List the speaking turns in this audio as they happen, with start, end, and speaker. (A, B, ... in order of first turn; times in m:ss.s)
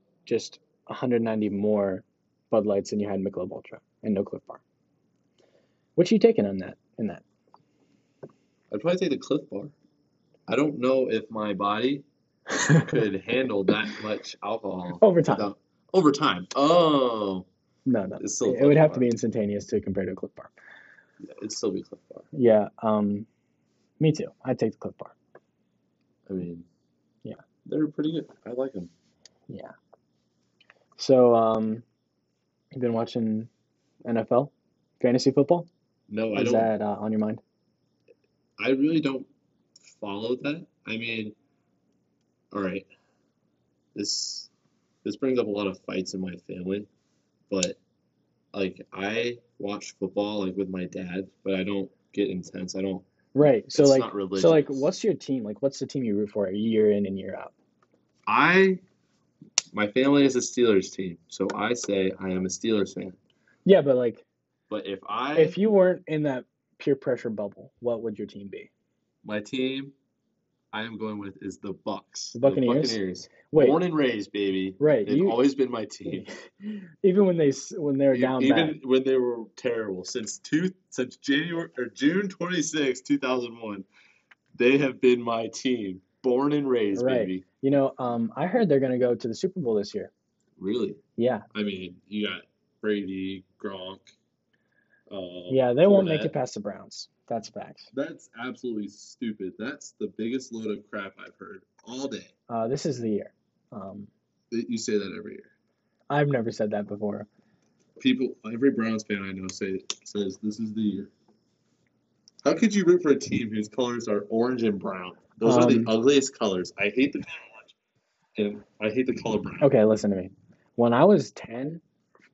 0:00.2-0:04.6 A
0:06.0-0:07.2 A
0:08.7-0:09.7 B
0:10.5-0:12.0 B
0:12.5-0:12.9 A
0:12.8-0:17.5 B
0:15.0-0:15.5 A
0:17.8-0:20.5 A
0:18.2-0:19.1 B
0:21.2-0:22.3 B
0:22.3-0:23.3 A
0:24.0-0:25.2 A
0:26.2-0:26.7 B
0:27.6-0:28.9 B
0:31.0-0:31.8 A
0:32.7-0:33.5 A
0:34.0-0:35.7 A
0:36.1-0:36.7 B
0:36.3-0:37.4 A
0:38.6-0:41.3 B
0:42.5-0:42.9 B
0:43.9-0:44.5 B
0:45.0-0:46.9 B
0:47.5-0:47.8 B
0:48.5-0:53.0 B
0:53.3-0:57.5 A
0:53.7-0:54.9 B
0:58.2-0:58.8 B
0:59.7-1:03.2 B
1:03.6-1:04.2 A
1:04.7-1:05.6 B
1:05.3-1:08.7 A
1:09.2-1:09.9 B
1:10.7-1:16.3 B
1:12.3-1:13.8 A
1:14.8-1:15.4 A
1:16.0-1:18.8 A
1:18.1-1:23.8 B
1:24.5-1:27.4 B
1:26.9-1:30.1 A
1:30.6-1:31.0 B
1:31.2-1:31.5 A
1:31.5-1:34.1 B
1:35.1-1:36.3 B
1:35.5-1:37.9 A
1:37.9-1:42.3 B
1:42.5-1:44.1 A
1:44.5-1:45.5 B
1:46.1-1:47.3 A
1:48.0-1:51.1 B
1:52.4-1:57.7 B
1:55.4-1:55.9 A
1:58.4-1:59.7 B
1:59.6-2:01.8 A